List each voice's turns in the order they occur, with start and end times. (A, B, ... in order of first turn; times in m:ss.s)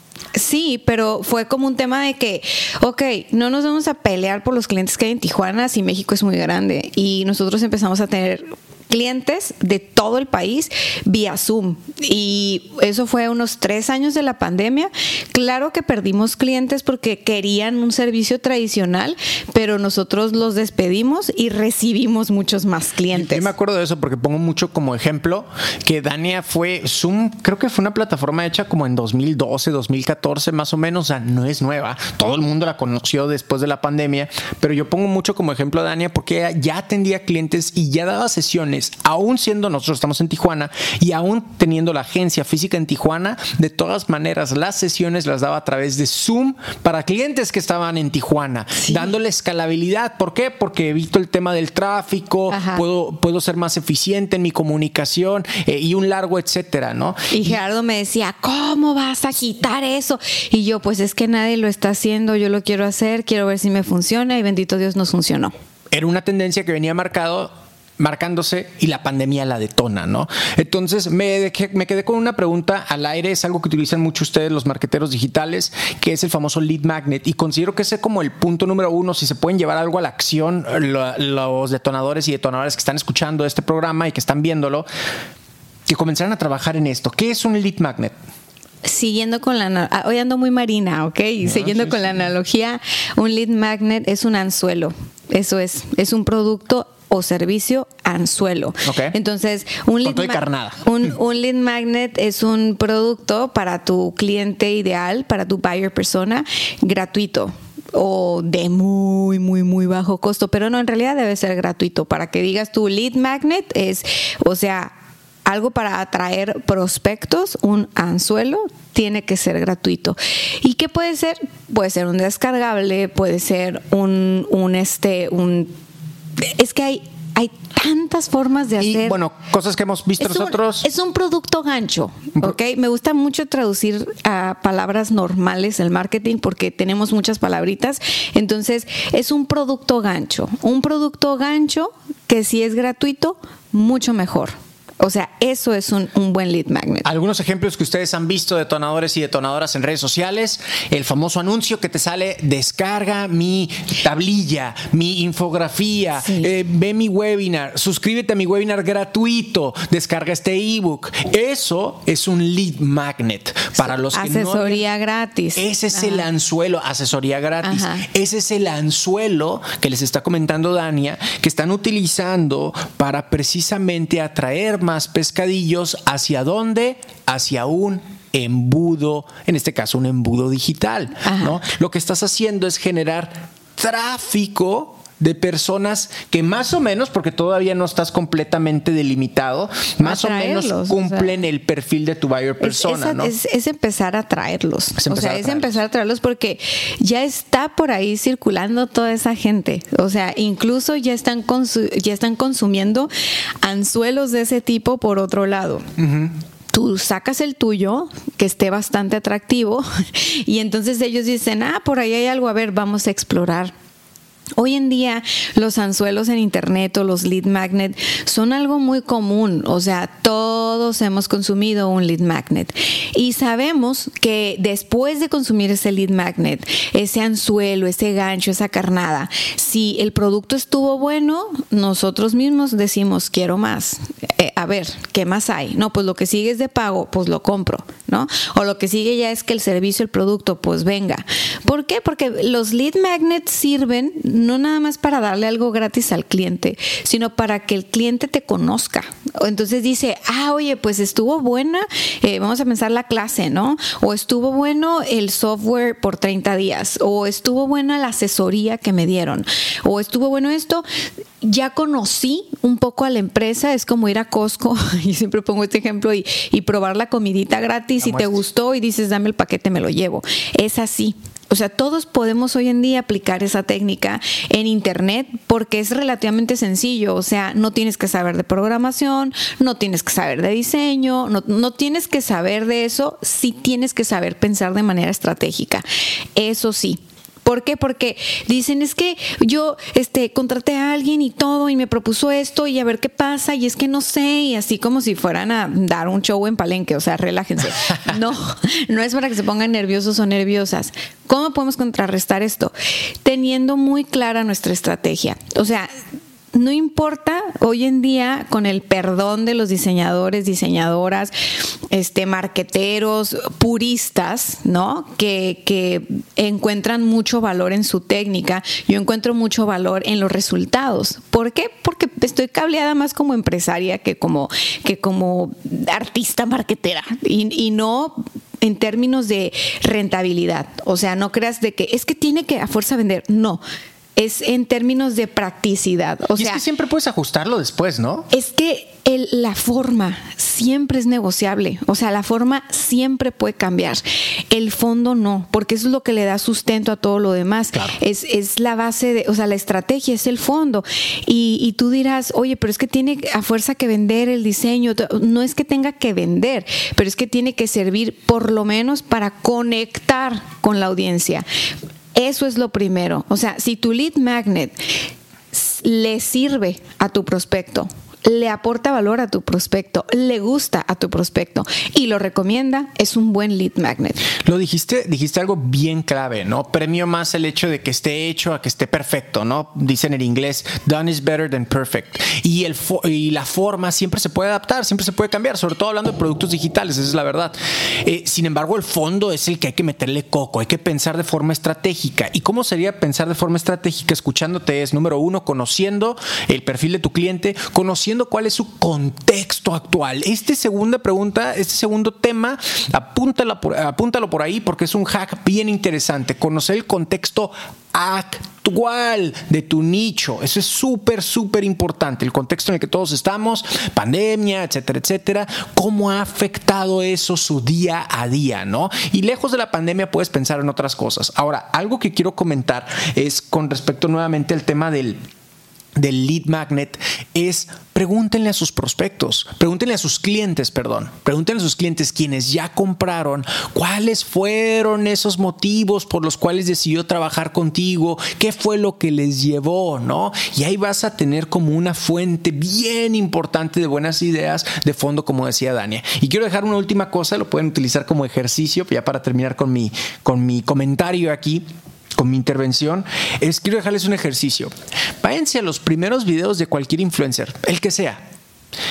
0:00.3-0:23.5 A
0:23.1-0:57.6 B
0:48.8-0:49.1 A
0:52.5-0:52.8 A
0:57.3-1:05.5 A
1:05.9-1:24.9 B
1:25.9-1:28.1 B
1:28.8-1:54.9 A
1:31.4-1:32.2 B
1:38.8-1:39.1 B
1:40.0-1:40.8 B
1:55.4-2:05.7 A
2:06.4-2:09.2 A
2:08.8-2:10.8 B
2:10.2-2:27.1 A
2:27.0-2:44.8 B
2:36.2-2:36.5 A
2:43.8-2:46.2 A
2:45.6-3:13.3 B
2:47.6-2:48.0 A
3:01.2-3:01.6 A
3:10.0-3:11.3 A
3:12.6-3:23.1 A
3:15.0-3:15.7 B
3:23.6-3:25.9 A
3:26.0-3:26.3 B
3:26.7-3:33.7 A
3:34.6-4:20.8 A
4:21.4-4:45.8 A
4:46.4-5:02.7 A
5:03.2-5:05.9 A
5:06.5-5:11.3 A
5:11.9-5:33.6 A
5:34.2-5:36.6 A
5:36.4-5:38.3 B
5:38.3-6:01.4 A
6:02.1-6:04.8 A
6:05.5-6:14.2 A
6:14.4-7:05.2 B
7:06.0-7:31.6 B
7:32.2-7:38.2 B